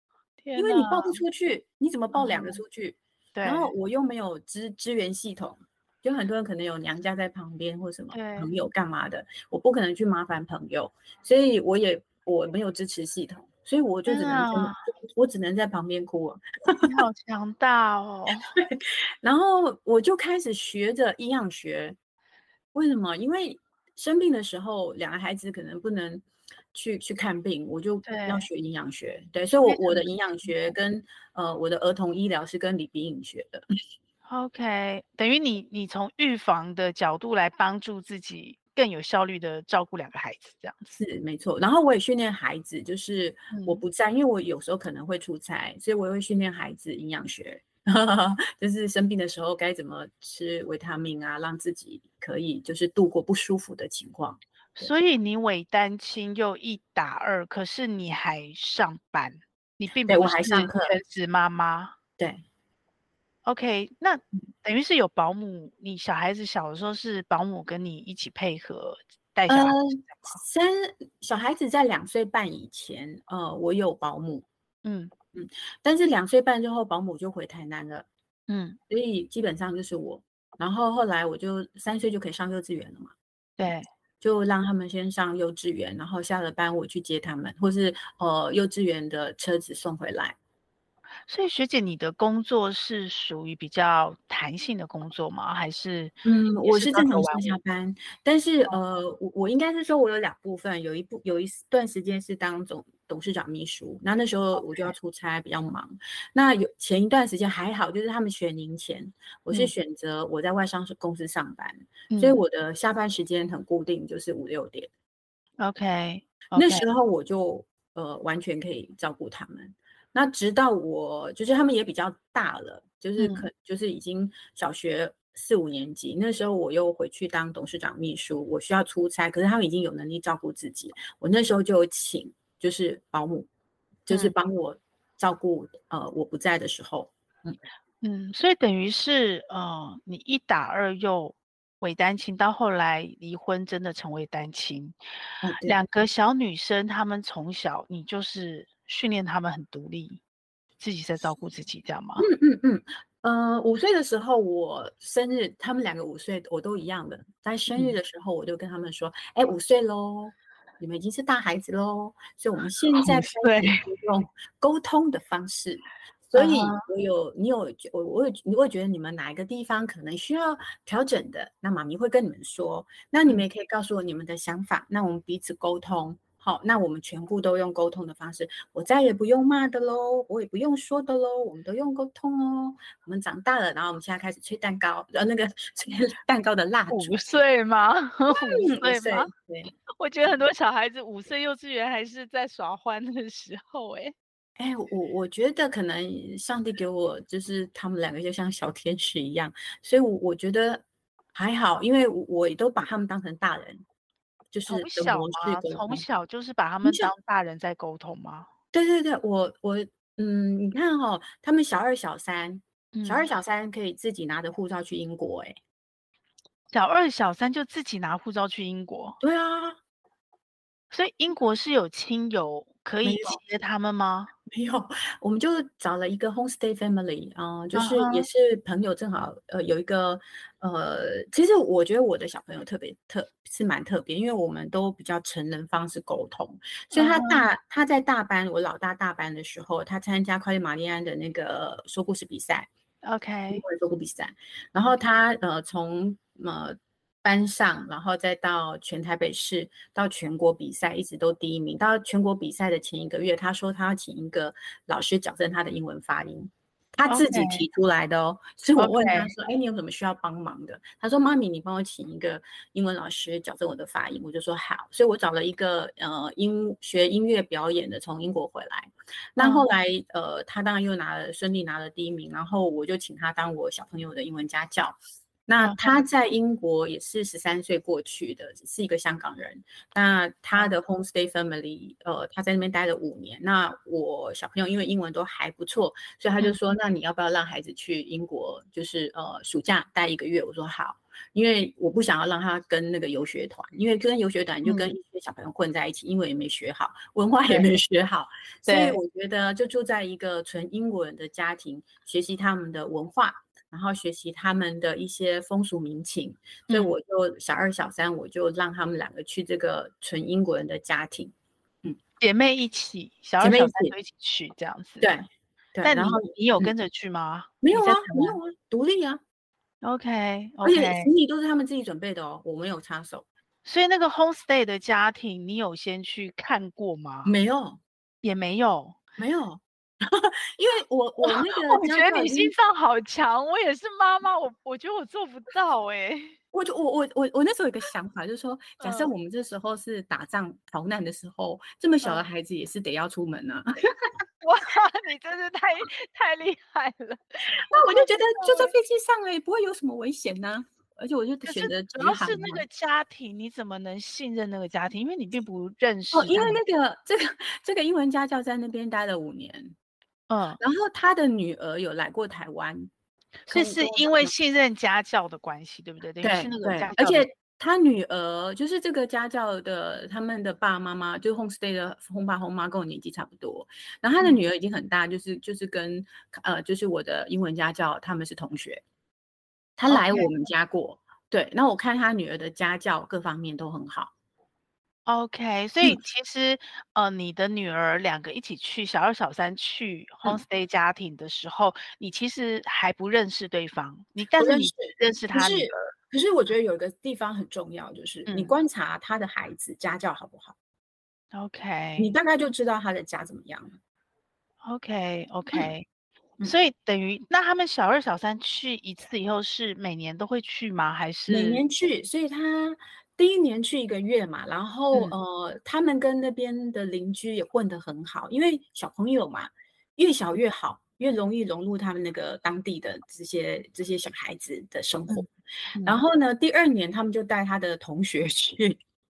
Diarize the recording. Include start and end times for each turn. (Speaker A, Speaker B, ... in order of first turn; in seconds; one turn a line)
Speaker A: 0.4-1.2
Speaker B: 0.6-16.9
Speaker A: 2.1-2.6
Speaker A: 3.3-3.7
Speaker A: 8.1-8.5
Speaker A: 14.1-14.8
Speaker A: 16.8-18.5
Speaker B: 18.5-21.9
Speaker B: 22.7-33.6
Speaker A: 28.0-28.4
Speaker A: 29.6-30.1
Speaker A: 34.3-40.9
Speaker B: 40.9-54.9
Speaker A: 43.5-43.8
Speaker A: 54.8-61.9
Speaker B: 60.1-60.9
Speaker A: 63.4-70.1
Speaker B: 69.5-74.5
Speaker A: 74.8-75.1
Speaker B: 75.3-78.1
Speaker A: 78.5-78.8
Speaker B: 78.9-83.1
Speaker A: 83.6-83.9
Speaker B: 84.2-90.4
Speaker A: 91.3-97.5
Speaker B: 96.2-114.9
Speaker A: 112.1-112.4
Speaker A: 115.6-116.8
Speaker B: 116.5-133.5
Speaker A: 123.2-123.4
Speaker B: 134.1-137.6
Speaker A: 138.0-144.9
Speaker B: 145.4-145.8
Speaker A: 145.6-150.2
Speaker A: 150.8-152.2
Speaker B: 152.2-187.2
Speaker A: 163.0-163.8
Speaker A: 166.3-166.8
Speaker A: 186.9-189.3
Speaker B: 188.3-189.7
Speaker A: 190.0-194.1
Speaker B: 194.6-203.8
Speaker B: 204.5-206.0
Speaker A: 204.7-208.5
Speaker B: 206.8-207.1
Speaker B: 208.7-215.5
Speaker A: 212.9-213.3
Speaker A: 216.7-219.2
Speaker B: 219.2-219.8
Speaker A: 220.9-224.3
Speaker B: 223.0-223.4
Speaker B: 224.5-242.7
Speaker A: 227.7-228.2
Speaker A: 236.9-237.5
Speaker A: 243.0-243.6
Speaker B: 243.5-311.3
Speaker A: 257.1-257.6
Speaker A: 258.8-259.3
Speaker A: 269.4-269.7
Speaker A: 275.6-276.0
Speaker A: 294.6-294.9
Speaker A: 298.7-299.0
Speaker A: 312.2-315.1
Speaker B: 313.4-313.9
Speaker B: 315.0-316.7
Speaker A: 315.8-318.4
Speaker B: 317.6-319.2
Speaker A: 319.8-321.1
Speaker B: 320.6-323.2
Speaker A: 323.6-327.3
Speaker B: 327.2-327.8
Speaker A: 328.2-329.0
Speaker B: 329.2-332.5
Speaker A: 331.2-336.3
Speaker B: 336.5-343.7
Speaker A: 338.8-339.1
Speaker A: 344.4-348.7
Speaker B: 347.7-352.6
Speaker A: 351.4-356.6
Speaker B: 356.1-359.7
Speaker A: 360.3-360.6
Speaker B: 360.6-362.9
Speaker A: 363.5-367.3
Speaker B: 363.5-364.3
Speaker B: 366.2-378.8
Speaker B: 379.8-384.1
Speaker A: 379.9-380.3
Speaker A: 385.1-395.9
Speaker B: 394.4-400.5
Speaker A: 398.3-398.5
Speaker A: 401.3-402.1
Speaker B: 402.0-403.8
Speaker A: 404.6-405.9
Speaker A: 406.4-411.6
Speaker B: 411.3-425.3
Speaker B: 425.8-428.8